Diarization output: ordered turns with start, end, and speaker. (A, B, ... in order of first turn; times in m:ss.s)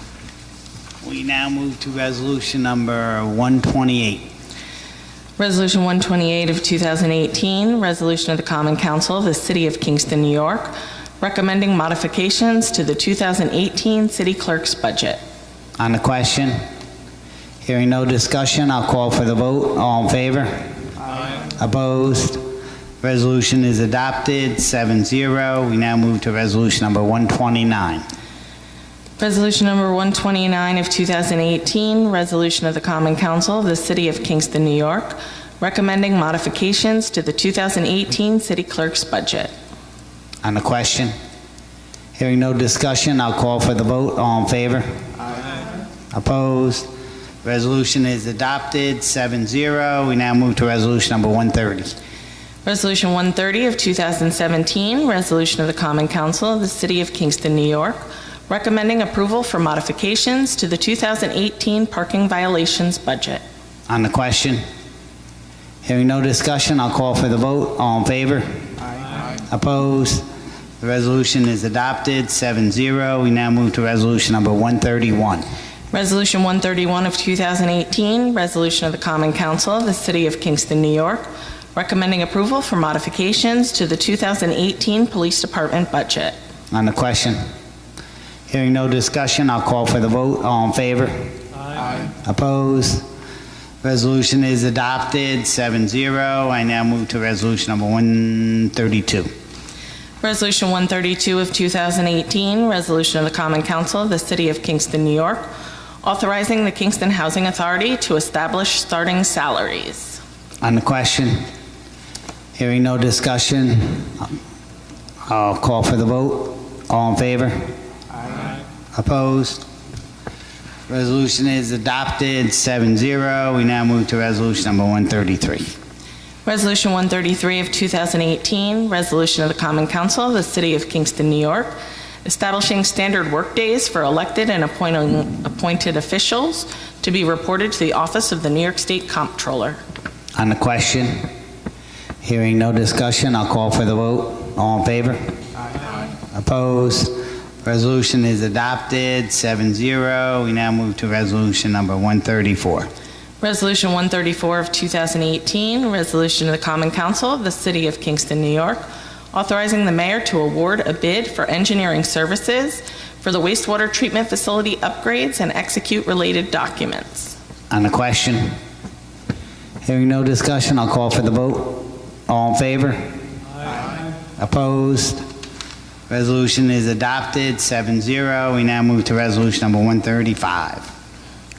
0:01.0-0:04.3 A
0:05.4-0:15.2 B
0:15.8-0:16.6 A
0:17.6-0:20.7 A
0:21.6-0:22.4 A
0:23.0-0:28.0 A
0:29.2-0:39.5 B
0:40.4-0:41.1 A
0:42.2-0:45.0 A
0:46.1-0:46.9 A
0:47.4-0:52.0 A
0:52.6-1:03.4 B
1:03.9-1:04.6 A
1:05.8-1:08.7 A
1:09.4-1:10.2 A
1:10.8-1:15.4 A
1:15.9-1:26.4 B
1:26.7-1:27.4 A
1:28.5-1:31.4 A
1:32.0-1:33.0 A
1:33.8-1:39.3 A
1:40.2-1:45.5 B
1:46.0-1:50.2 B
1:50.6-1:51.4 A
1:52.6-1:54.3 A
1:55.3-1:57.7 A
1:58.9-1:59.6 A
2:00.9-2:05.7 A
2:06.4-2:19.8 B
2:20.4-2:21.3 A
2:22.2-2:25.2 A
2:26.3-2:32.9 A
2:33.4-2:47.3 B
2:47.7-2:48.6 A
2:49.8-2:53.2 A
2:54.4-2:55.2 A
2:56.1-3:00.9 A